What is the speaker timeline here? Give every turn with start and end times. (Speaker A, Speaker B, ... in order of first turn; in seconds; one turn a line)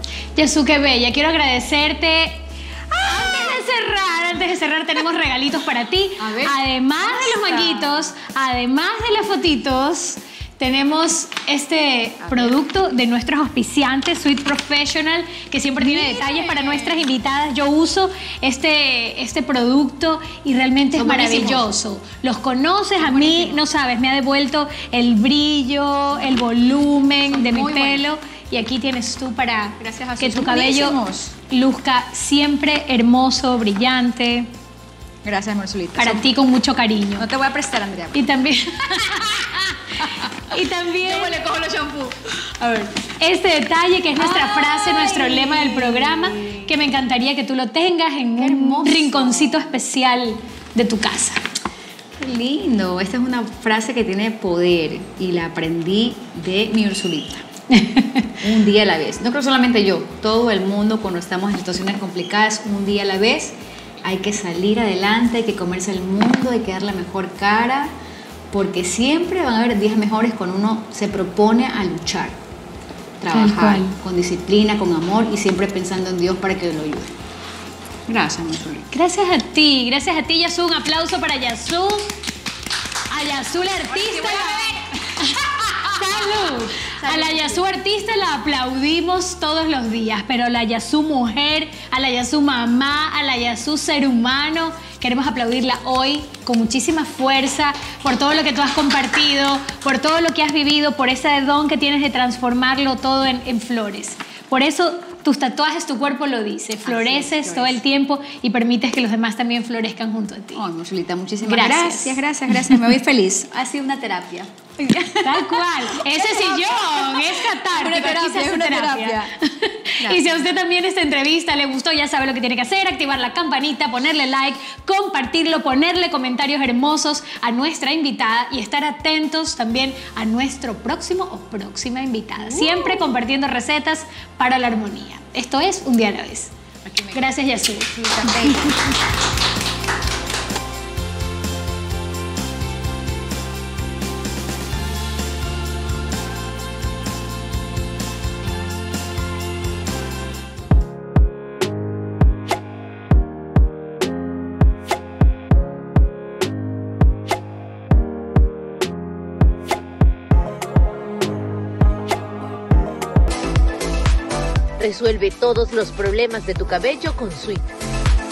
Speaker A: 0.4-31.0
Speaker B: 3.0-3.5
Speaker B: 6.2-8.0
Speaker B: 12.2-12.6
Speaker B: 15.8-17.0
Speaker B: 20.9-21.7
Speaker B: 23.0-23.7
Speaker B: 27.3-28.1
Speaker B: 29.8-31.3
Speaker A: 31.5-34.5
Speaker B: 35.2-36.3
Speaker A: 36.0-37.3
Speaker B: 37.2-38.3
Speaker A: 38.1-41.4
Speaker B: 38.9-43.1
Speaker A: 43.2-51.4
Speaker B: 44.2-46.7
Speaker B: 48.4-49.7
Speaker B: 52.2-57.5
Speaker A: 57.7-58.3
Speaker B: 58.4-67.9
Speaker B: 68.5-72.4
Speaker B: 73.2-77.2
Speaker A: 73.3-74.0
Speaker B: 78.1-78.9
Speaker A: 78.9-82.2
Speaker A: 83.1-110.7
Speaker B: 83.9-86.4
Speaker B: 87.0-87.7
Speaker B: 106.8-107.8
Speaker B: 110.5-119.3
Speaker A: 111.4-112.8
Speaker A: 115.2-136.5
Speaker B: 120.0-120.5
Speaker B: 132.4-133.1
Speaker B: 136.8-139.0
Speaker A: 137.1-138.9
Speaker C: 164.8-167.7